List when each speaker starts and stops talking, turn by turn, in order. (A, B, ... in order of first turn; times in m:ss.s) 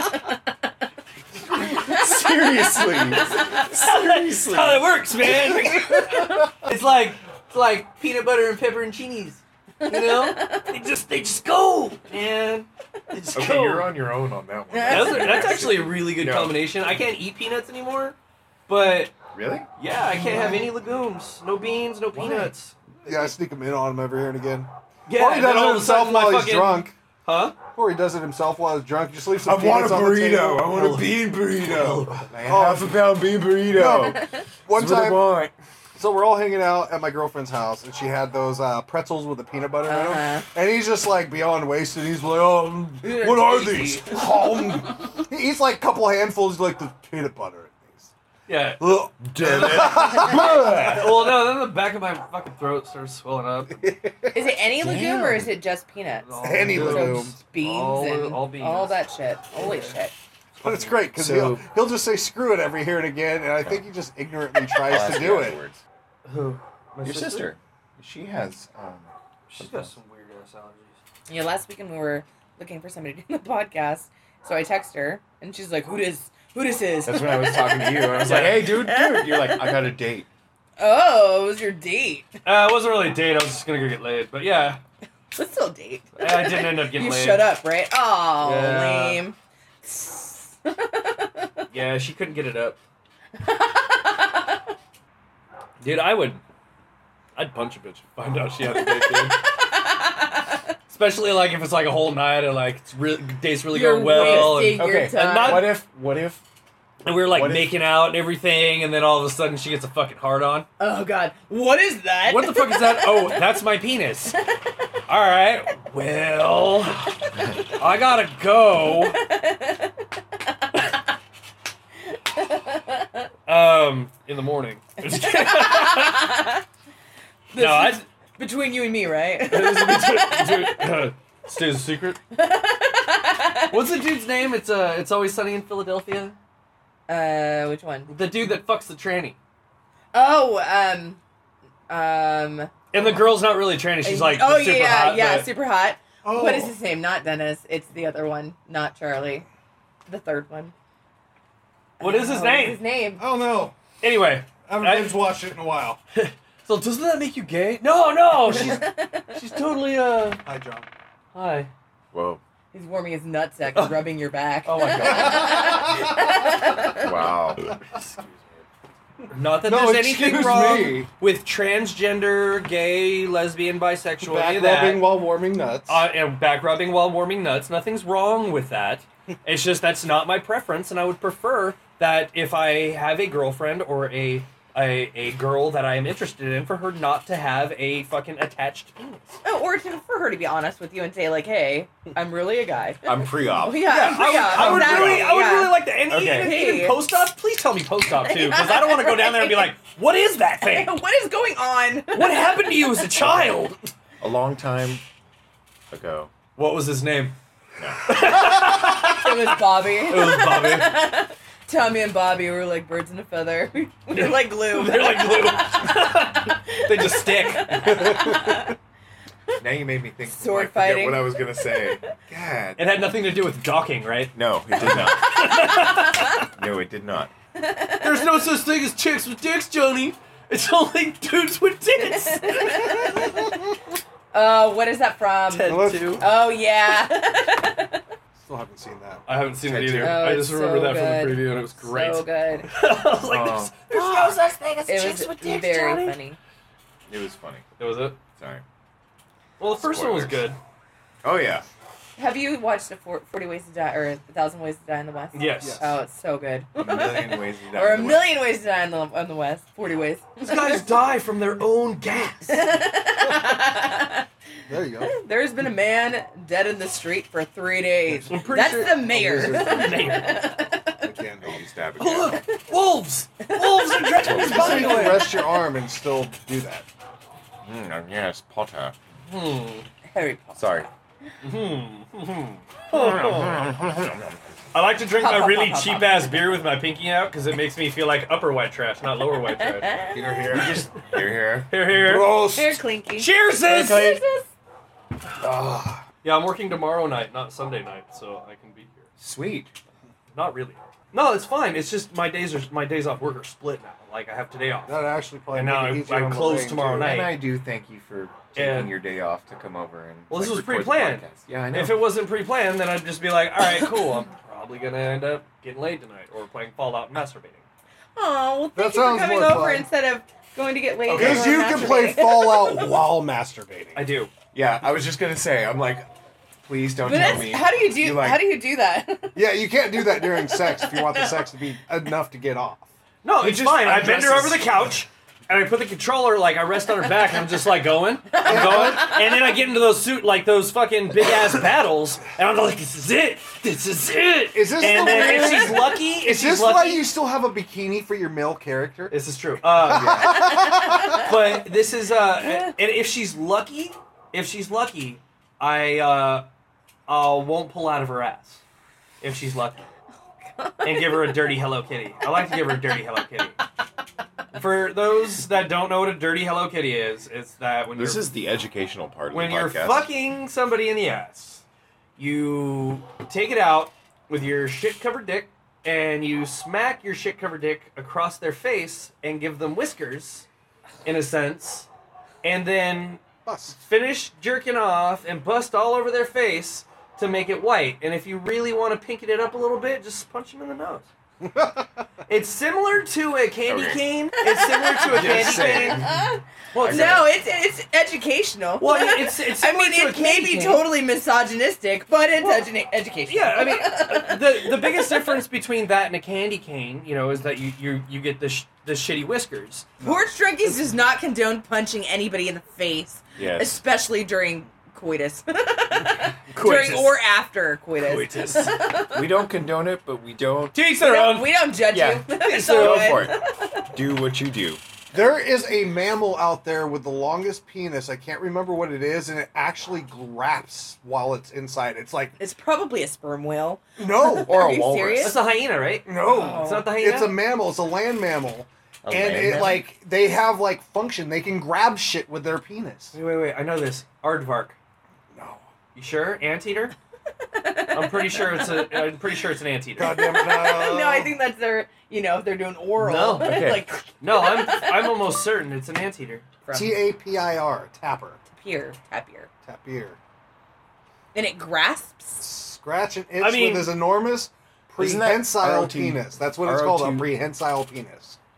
0:01.4-0:05.0 A
0:01.7-0:03.6 B
0:03.1-0:13.9 C
0:05.6-0:06.2 D
0:09.8-0:10.7 B
0:13.3-0:16.7 A
0:14.7-0:15.6 B
0:14.8-0:18.2 C
0:18.7-0:19.1 C
0:19.3-0:19.7 A
0:19.8-0:23.3 C
0:20.1-0:20.7 D
0:23.0-0:26.9 D
0:25.1-0:27.6 C
0:27.7-0:33.1 D
0:29.4-0:35.5 A
0:30.7-0:32.3 C
0:33.7-0:35.3 D
0:35.9-0:48.1 D
0:39.8-0:40.5 B
0:43.0-0:44.2 B
0:48.5-0:54.0 C
0:48.8-0:51.4 D
0:49.2-0:50.9 A
0:53.8-0:54.4 D
0:54.3-1:00.1 B
0:54.8-0:55.5 A
0:56.2-0:59.0 C
0:56.4-0:57.4 D
0:56.6-0:57.0 A
0:59.6-0:59.9 C
1:00.5-1:01.1 C
1:00.6-1:05.6 D
1:01.1-1:01.6 A
1:04.7-1:05.8 A
1:06.2-1:07.5 C
1:07.0-1:09.9 A
1:09.5-1:11.0 C
1:11.3-1:19.9 B
1:17.0-1:20.3 A
1:18.2-1:18.7 C
1:20.8-1:22.3 B
1:22.4-1:24.8 C
1:25.3-1:31.6 B
1:26.2-1:27.5 C
1:28.4-1:29.2 C
1:31.7-1:32.8 C
1:33.4-1:34.4 B
1:35.8-1:36.4 C
1:37.4-1:39.4 C
1:38.6-1:40.6 B
1:40.9-1:45.8 C
1:43.7-1:45.7 B
1:44.1-1:46.4 A
1:47.0-1:50.7 C
1:47.1-1:47.8 A
1:50.8-1:53.3 B
1:52.2-1:54.4 C
1:55.1-1:59.2 C
1:59.1-1:59.9 B
2:02.5-2:03.1 B
2:03.4-2:06.3 C
2:05.1-2:06.6 B
2:07.5-2:10.8 B
2:07.6-2:08.0 C
2:09.4-2:12.2 C
2:12.3-2:13.8 B
2:13.7-2:16.3 C
2:17.1-2:18.1 B
2:18.1-2:19.4 C
2:20.1-2:21.2 B
2:21.9-2:22.7 B
2:22.9-2:25.5 C
2:24.0-2:29.4 B
2:26.2-2:26.7 D
2:30.1-2:30.7 B
2:32.0-2:33.2 B
2:32.0-2:32.8 C
2:33.2-2:33.8 D
2:34.0-2:35.3 C
2:34.6-2:36.0 D
2:36.1-2:40.4 C
2:38.5-2:39.3 B
2:40.4-2:40.9 D
2:41.3-2:41.7 C
2:42.1-2:42.4 A
2:42.7-2:47.0 B
2:43.7-2:44.0 C
2:44.6-2:45.8 C
2:45.0-2:46.3 D
2:46.9-2:47.8 A
2:48.0-2:48.2 C
2:49.3-2:55.1 C
2:49.6-2:51.1 D
2:54.2-2:56.0 D
2:55.9-3:09.4 C
3:09.4-3:17.3 B
3:13.0-3:14.0 A
3:13.8-3:20.9 C
3:14.0-3:15.2 D
3:14.6-3:15.2 A
3:16.1-3:16.6 A
3:18.2-3:19.8 B
3:20.6-3:22.4 B
3:22.1-3:23.8 C
3:24.2-3:25.0 A
3:25.9-3:26.3 A
3:26.6-3:27.4 C
3:27.8-3:28.3 A
3:28.1-3:31.0 C
3:29.0-3:35.6 B
3:34.1-3:38.7 C
3:36.7-3:38.8 B
3:39.6-3:42.9 A
3:40.3-3:41.8 B
3:42.8-3:46.5 C
3:44.3-3:45.7 A
3:46.6-3:47.3 A
3:47.6-3:48.4 B
3:48.0-3:53.2 C
3:52.0-3:53.3 B
3:54.3-3:58.0 B
3:55.5-3:56.2 C
3:55.6-3:56.2 D
3:58.4-3:59.2 D
3:59.3-4:06.2 C
3:59.6-4:00.2 A
4:00.0-4:02.7 B
4:03.2-4:04.5 A
4:04.9-4:06.4 B
4:07.1-4:07.6 A
4:07.8-4:08.2 C
4:08.4-4:08.6 A
4:09.6-4:10.6 C
4:09.7-4:10.5 A
4:11.2-4:11.6 A
4:12.2-4:20.8 B
4:15.3-4:15.8 C
4:15.6-4:15.9 D
4:16.8-4:18.3 A
4:20.4-4:22.6 C
4:22.5-4:24.2 B
4:24.7-4:25.2 D
4:25.0-4:31.0 B
4:28.3-4:30.4 C
4:28.8-4:30.1 D
4:31.0-4:31.6 D
4:31.4-4:32.4 A
4:32.0-4:35.4 C
4:33.4-4:34.2 B
4:34.2-4:35.1 A
4:34.3-4:36.9 D
4:37.6-4:39.0 A
4:39.3-4:39.9 C
4:40.1-4:40.6 B
4:40.6-4:40.9 A
4:41.4-4:43.6 C
4:42.9-4:44.4 A
4:44.7-4:51.0 C
4:45.2-4:46.3 B
4:49.7-4:50.2 B
4:50.1-4:50.9 D
4:51.0-4:51.7 A
4:51.7-4:52.4 C
4:51.9-4:52.8 D
4:52.4-4:54.5 B
4:53.2-4:54.2 C
4:55.4-4:56.0 D
4:56.2-4:59.1 C
4:59.2-4:59.7 A
5:00.3-5:05.0 C
5:04.8-5:07.2 D
5:05.5-5:07.4 C
5:07.0-5:12.1 A
5:08.5-5:08.9 C
5:10.3-5:17.6 C
5:18.2-5:22.9 B
5:18.7-5:19.9 D
5:21.1-5:21.7 C
5:21.1-5:24.1 D
5:23.9-5:24.3 C
5:24.5-5:26.1 A
5:26.6-5:28.5 A
5:27.0-5:29.4 B
5:29.3-5:34.8 D
5:30.1-5:31.4 B
5:33.2-5:47.1 C
5:38.3-5:39.1 B
5:38.4-5:39.2 D
5:44.5-5:49.1 D
5:44.8-5:45.8 B
5:49.1-5:50.6 C
5:49.8-5:51.2 D
5:49.8-5:50.4 A
5:50.3-5:51.3 B
5:51.1-5:56.5 C
5:52.4-5:52.7 B
5:57.1-5:58.6 C
5:59.2-5:59.9 C
6:00.4-6:01.5 B
6:00.8-6:03.6 C
6:04.5-6:08.3 C
6:08.0-6:10.0 A
6:09.3-6:11.6 C
6:12.2-6:20.5 C
6:21.0-6:21.9 C
6:22.4-6:23.2 C
6:23.4-6:23.8 D
6:23.7-6:31.1 C
6:31.4-6:31.9 D
6:32.3-6:36.1 C
6:33.6-6:34.0 A
6:34.4-6:45.4 B
6:35.0-6:36.2 A
6:36.7-6:37.3 C
6:36.8-6:37.3 A
6:38.8-6:40.8 C
6:42.4-6:42.7 C
6:43.2-6:49.9 C
6:50.0-6:59.4 B
6:53.4-6:53.8 A
6:56.5-6:57.2 C
6:58.0-6:58.9 C
6:59.1-7:00.8 A
7:00.7-7:01.6 C
7:01.0-7:03.9 B
7:01.9-7:05.3 A
7:02.3-7:03.3 C
7:05.1-7:12.3 D
7:12.4-7:15.4 B
7:14.0-7:14.6 D
7:14.3-7:15.4 A
7:15.2-7:17.4 C
7:16.0-7:23.1 D
7:16.2-7:16.9 B
7:19.0-7:19.8 A
7:23.1-7:24.8 C
7:25.3-7:25.6 D
7:25.9-7:26.9 C
7:27.4-7:29.0 B
7:27.9-7:30.2 C
7:30.0-7:31.3 D
7:30.1-7:35.1 B
7:33.0-7:33.6 C
7:33.4-7:33.8 A
7:34.2-7:36.4 C
7:36.6-7:37.0 B
7:36.7-7:38.4 D
7:38.5-7:39.5 B
7:39.6-7:40.2 D
7:41.3-7:42.4 B
7:42.4-7:48.4 D
7:43.4-7:44.0 C
7:45.0-7:47.3 A